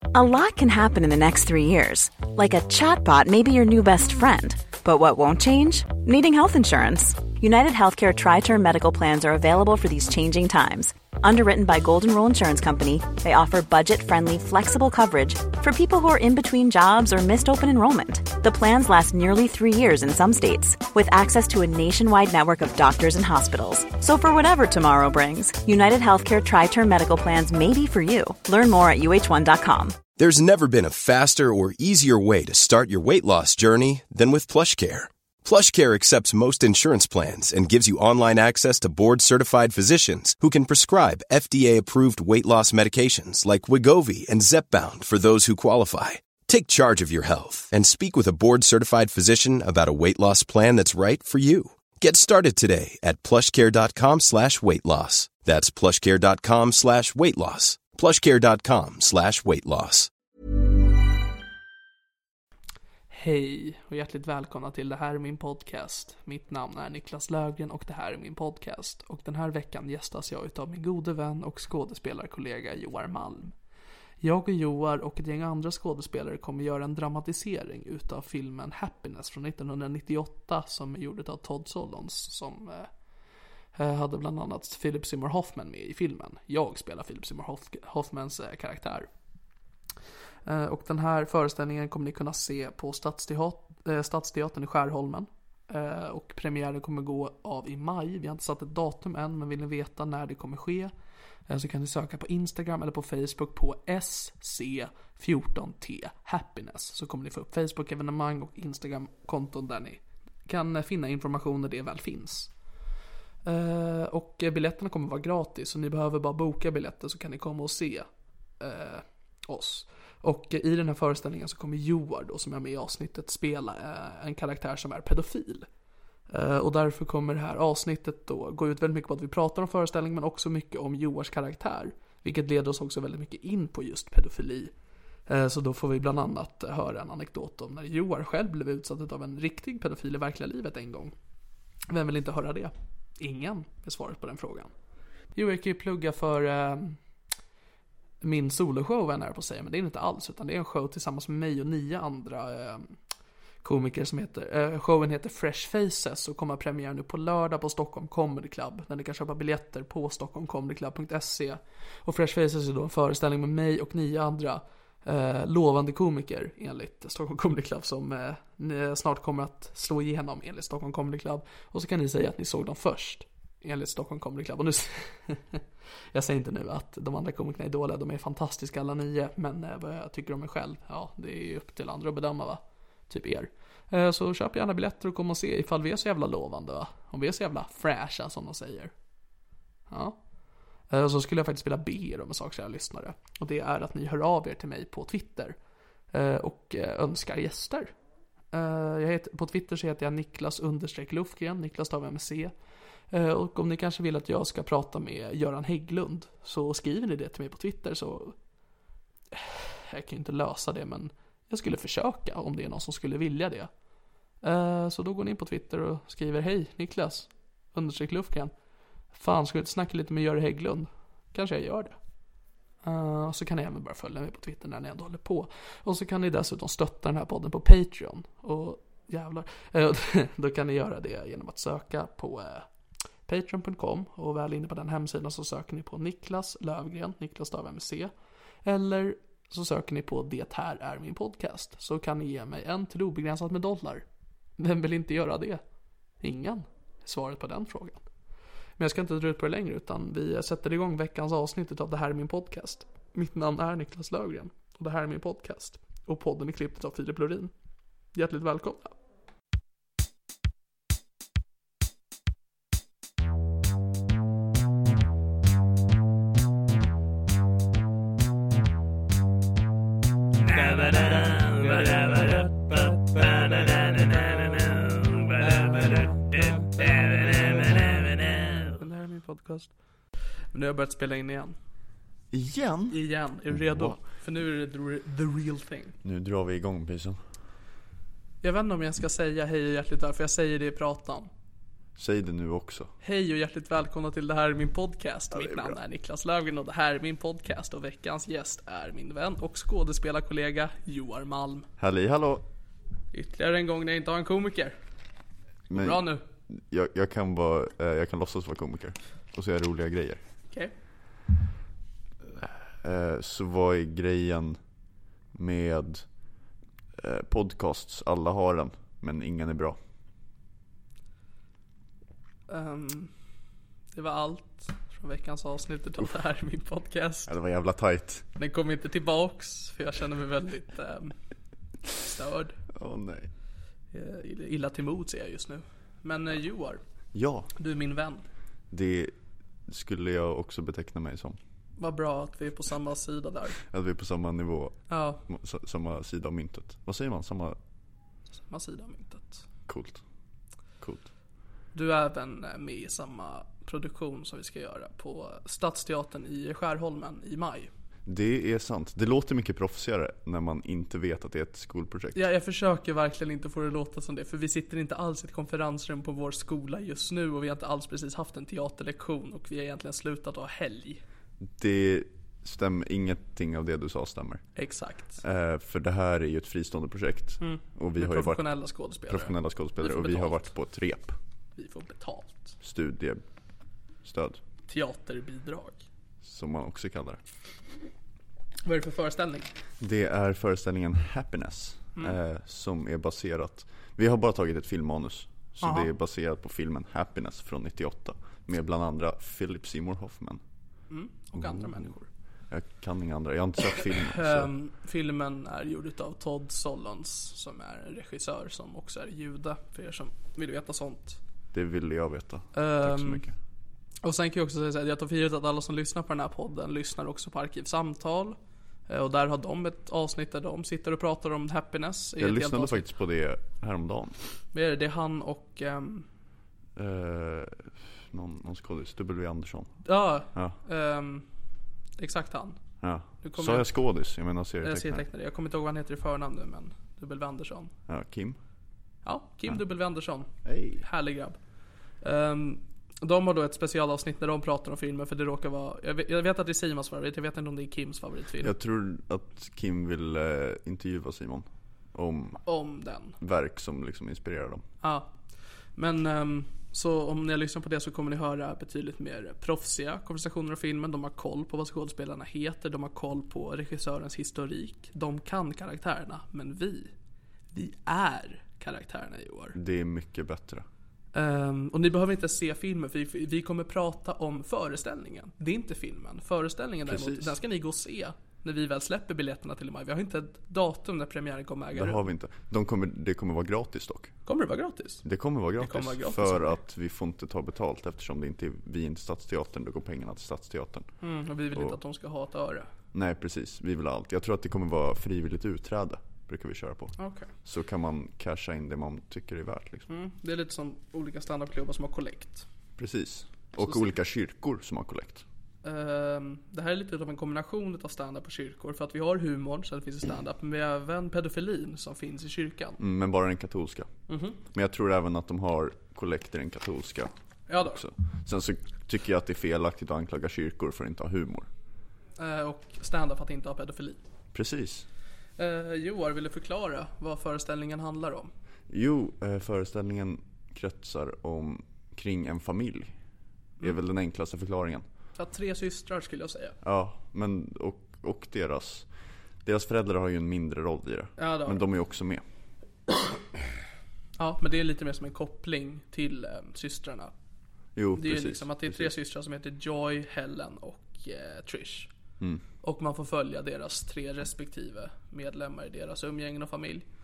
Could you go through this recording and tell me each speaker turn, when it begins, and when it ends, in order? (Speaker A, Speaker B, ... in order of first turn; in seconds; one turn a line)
Speaker A: 0.1-30.0
Speaker B: 30.2-60.1
Speaker C: 63.1-73.5
Speaker C: 74.2-82.9
Speaker C: 83.8-89.1
Speaker C: 90.5-100.9
Speaker C: 101.5-112.5
Speaker C: 113.5-118.1
Speaker C: 118.6-125.7
Speaker C: 126.3-134.7
Speaker C: 135.3-141.1
Speaker C: 141.9-144.7
Speaker C: 145.3-147.0
Speaker C: 148.2-152.9
Speaker C: 153.6-175.6
Speaker C: 176.1-188.9
Speaker C: 189.9-190.2
Speaker C: 190.9-195.6
Speaker C: 196.1-197.9
Speaker C: 198.5-202.5
Speaker C: 203.1-208.3
Speaker C: 209.3-213.7
Speaker C: 214.4-218.5
Speaker C: 219.1-222.0
Speaker C: 222.8-232.7
Speaker C: 233.3-238.1
Speaker C: 238.7-244.1
Speaker C: 244.6-245.6
Speaker C: 246.2-248.0
Speaker C: 248.8-257.5
Speaker C: 258.1-258.9
Speaker C: 270.4-279.7
Speaker C: 280.5-281.6
Speaker D: 282.3-284.0
Speaker C: 282.9-286.0
Speaker D: 286.0-287.2
Speaker C: 288.4-291.3
Speaker D: 292.0-292.9
Speaker C: 293.0-301.7
Speaker D: 295.3-295.8
Speaker D: 301.8-302.4
Speaker C: 303.1-304.8
Speaker C: 305.7-306.2
Speaker D: 305.7-310.2
Speaker D: 312.4-314.6
Speaker D: 315.4-316.1
Speaker D: 317.0-319.8
Speaker C: 322.5-323.1
Speaker C: 323.9-327.3
Speaker D: 327.3-328.2
Speaker C: 328.4-331.2
Speaker C: 331.9-332.6
Speaker D: 332.8-333.3
Speaker C: 333.9-336.8
Speaker D: 337.1-337.5
Speaker C: 337.6-338.2
Speaker D: 338.7-339.1
Speaker D: 339.7-341.4
Speaker C: 341.8-343.6
Speaker D: 343.7-344.8
Speaker C: 344.9-345.2
Speaker D: 345.3-347.6
Speaker C: 348.4-349.4
Speaker D: 349.7-350.0
Speaker D: 350.8-351.1
Speaker C: 351.7-357.7
Speaker D: 358.1-362.2
Speaker C: 362.1-371.0
Speaker D: 371.4-374.4
Speaker C: 374.6-375.2
Speaker D: 375.2-378.4
Speaker C: 377.4-380.5
Speaker D: 379.1-381.2
Speaker C: 381.6-382.6
Speaker D: 382.6-383.2
Speaker D: 384.0-384.4
Speaker C: 384.7-385.8
Speaker D: 386.2-387.2
Speaker C: 388.6-389.5
Speaker D: 389.8-400.4
Speaker C: 395.6-395.9
Speaker C: 400.9-402.1
Speaker D: 401.4-401.7
Speaker D: 402.5-404.5
Speaker C: 403.9-411.2
Speaker D: 411.5-413.4
Speaker C: 412.6-413.3
Speaker C: 414.0-418.4
Speaker C: 418.9-422.9
Speaker D: 422.2-424.2
Speaker C: 424.5-426.1
Speaker D: 426.8-429.8
Speaker C: 429.9-431.3
Speaker C: 432.0-432.6
Speaker D: 432.8-435.0
Speaker C: 433.2-433.7
Speaker C: 434.6-437.7
Speaker D: 437.9-438.4
Speaker C: 439.1-440.3
Speaker D: 440.4-440.8
Speaker C: 440.8-441.4
Speaker C: 442.0-448.5
Speaker D: 448.4-452.4
Speaker C: 452.5-453.2
Speaker D: 453.2-454.6
Speaker C: 454.8-455.1
Speaker C: 455.8-466.9
Speaker C: 467.5-469.6
Speaker D: 469.6-470.7
Speaker C: 471.1-482.0
Speaker D: 476.9-477.4
Speaker D: 481.8-484.1
Speaker C: 484.3-485.1
Speaker D: 485.1-490.9
Speaker C: 485.6-486.5
Speaker C: 491.0-492.7
Speaker D: 492.9-499.9
Speaker C: 497.0-497.3
Speaker C: 499.9-502.5
Speaker D: 502.8-505.2
Speaker C: 503.6-503.9
Speaker C: 505.6-512.8
Speaker D: 512.8-513.9
Speaker C: 514.1-514.4
Speaker D: 514.5-517.1
Speaker C: 517.5-517.8
Speaker D: 517.6-521.5
Speaker C: 522.2-524.0
Speaker D: 524.3-524.9
Speaker C: 525.4-528.3
Speaker D: 528.7-533.0
Speaker D: 533.6-534.9
Speaker C: 535.2-536.6
Speaker D: 536.6-538.9
Speaker D: 539.4-542.2
Speaker C: 541.2-541.7
Speaker C: 544.2-547.1
Speaker D: 547.8-548.9
Speaker C: 548.0-551.9
Speaker C: 552.6-556.9